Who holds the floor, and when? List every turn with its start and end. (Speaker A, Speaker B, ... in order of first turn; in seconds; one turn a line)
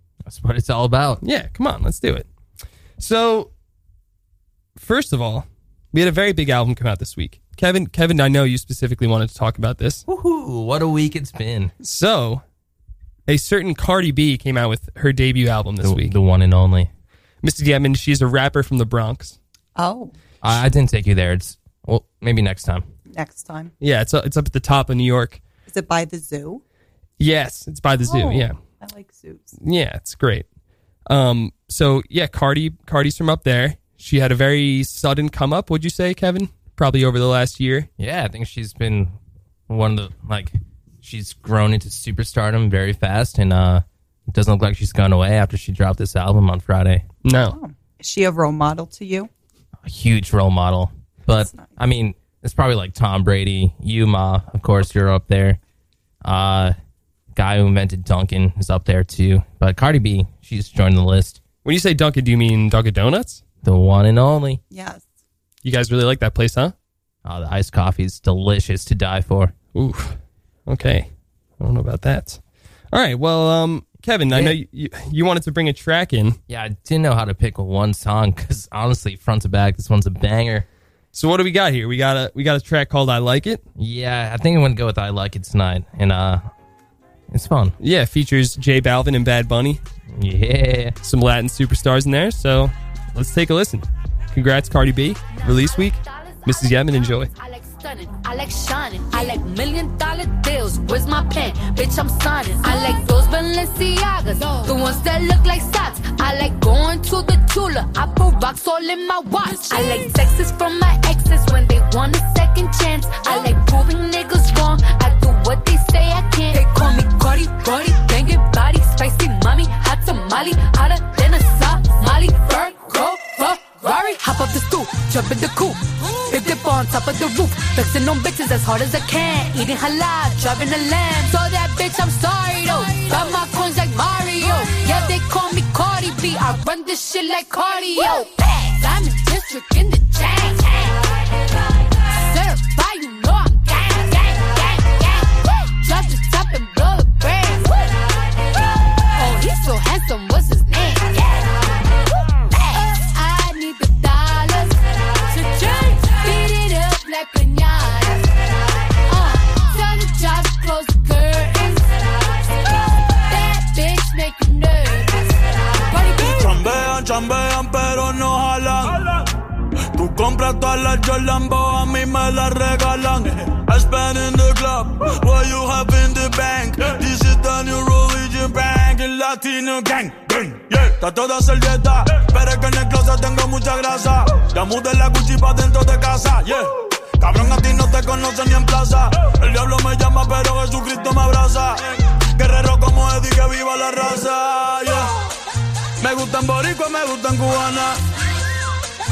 Speaker A: 0.3-1.2
Speaker B: 1.2-2.3
Speaker B: 3.0-3.5
Speaker B: 4.8-10.0
Speaker A: 10.1-11.7
Speaker B: 11.8-12.4
Speaker B: 13.3-16.1
Speaker A: 15.8-16.9
Speaker B: 17.4-19.4
Speaker C: 19.8-20.1
Speaker A: 20.4-22.9
Speaker C: 23.1-23.7
Speaker B: 23.8-25.4
Speaker C: 25.7-26.6
Speaker B: 27.2-28.6
Speaker C: 28.0-29.5
Speaker B: 29.6-30.4
Speaker B: 31.1-37.9
Speaker A: 38.0-39.1
Speaker A: 39.7-47.0
Speaker B: 47.2-47.6
Speaker C: 47.5-49.3
Speaker A: 49.8-55.6
Speaker C: 51.4-51.7
Speaker A: 56.2-56.8
Speaker A: 57.4-61.4
Speaker B: 61.6-63.4
Speaker A: 63.6-64.6
Speaker C: 64.7-65.1
Speaker B: 65.6-66.7
Speaker A: 67.2-69.5
Speaker B: 69.8-70.2
Speaker B: 70.7-71.1
Speaker B: 71.6-72.4
Speaker B: 72.9-76.4
Speaker A: 76.5-80.7
Speaker B: 81.1-83.6
Speaker A: 83.8-86.5
Speaker A: 87.3-87.8
Speaker B: 87.8-89.8
Speaker A: 90.1-91.0
Speaker B: 91.0-97.3
Speaker D: 95.3-141.0
Speaker D: 142.1-147.8
Speaker D: 149.2-151.5
Speaker D: 152.5-158.3
Speaker D: 159.1-162.2
Speaker D: 163.3-166.8
Speaker E: 166.3-169.3
Speaker E: 169.9-191.8
Speaker E: 192.3-195.1
Speaker E: 196.0-198.0